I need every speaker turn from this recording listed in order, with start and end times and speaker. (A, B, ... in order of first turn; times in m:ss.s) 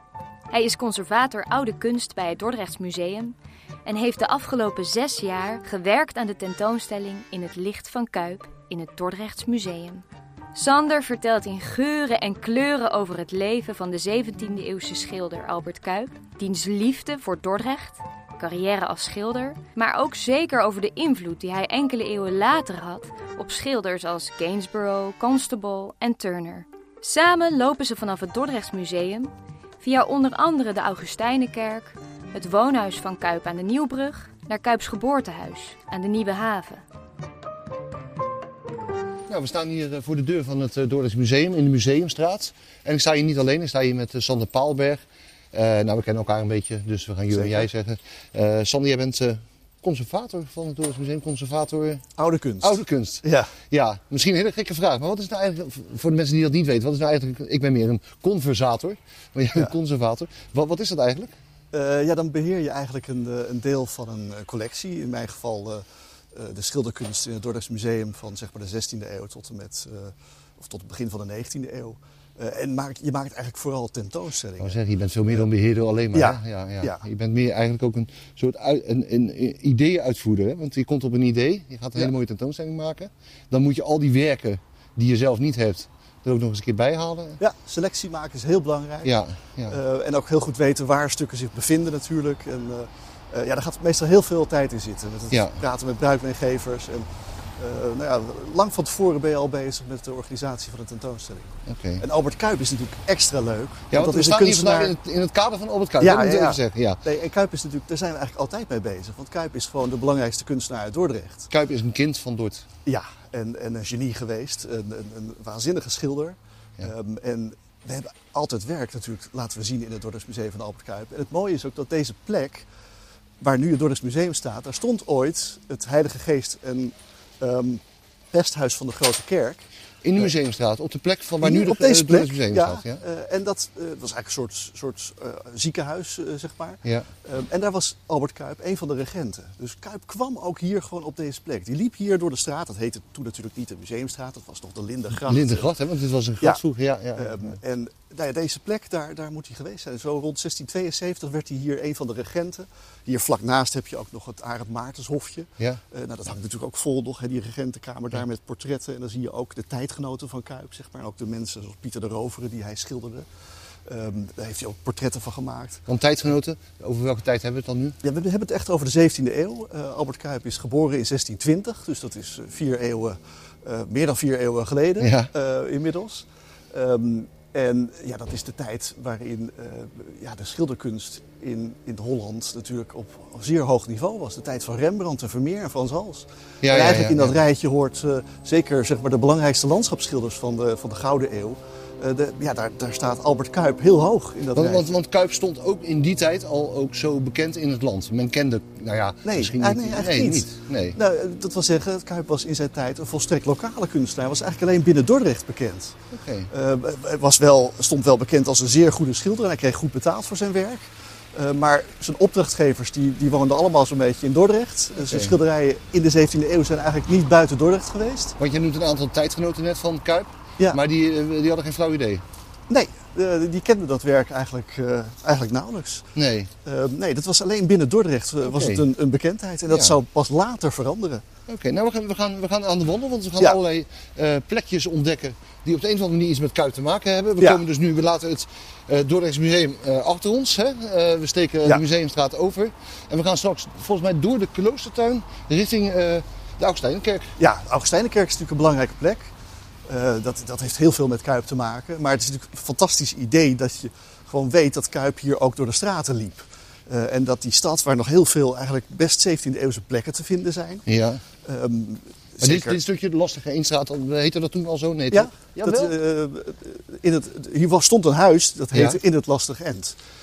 0:00.5-0:03.4 A
0:03.9-0:10.0 A
0:10.6-0:36.8 A
0:39.3-0:52.1 B
0:47.3-0:47.7 C
0:52.2-0:53.5 C
0:52.6-1:01.3 B
1:01.7-1:14.8 C
1:14.6-1:27.4 B
1:16.1-1:17.0 C
1:27.4-1:29.1 C
1:29.0-1:29.8 B
1:29.7-1:37.1 C
1:35.3-1:35.6 B
1:37.6-1:45.0 C
1:41.7-1:42.0 B
1:43.9-1:47.0 B
1:46.0-1:51.5 C
1:51.5-1:52.7 B
1:52.9-2:02.7 C
2:03.4-2:09.7 C
2:10.0-2:13.0 B
2:11.4-2:25.7 C
2:25.2-2:27.6 B
2:27.2-2:43.3 C
2:43.9-2:45.8 C
2:45.9-2:48.0 B
2:48.0-3:14.9 C
2:55.0-2:55.3 B
3:06.6-3:07.4 B
3:14.5-3:21.0 B
3:19.2-3:26.0 C
3:26.1-3:26.5 B
3:26.5-3:38.4 C
3:35.0-3:35.4 B
3:38.4-3:42.2 B
3:42.7-3:46.1 C
3:46.2-3:46.5 B
3:46.6-3:51.2 C
3:48.4-3:48.9 B
3:49.7-3:50.0 B
3:51.5-4:07.3 B
4:07.4-4:09.3 C
4:09.9-4:20.8 C
4:20.9-4:21.2 B
4:21.4-4:22.8 C
4:22.4-4:25.9 B
4:25.1-4:30.0 C
4:28.7-4:29.0 B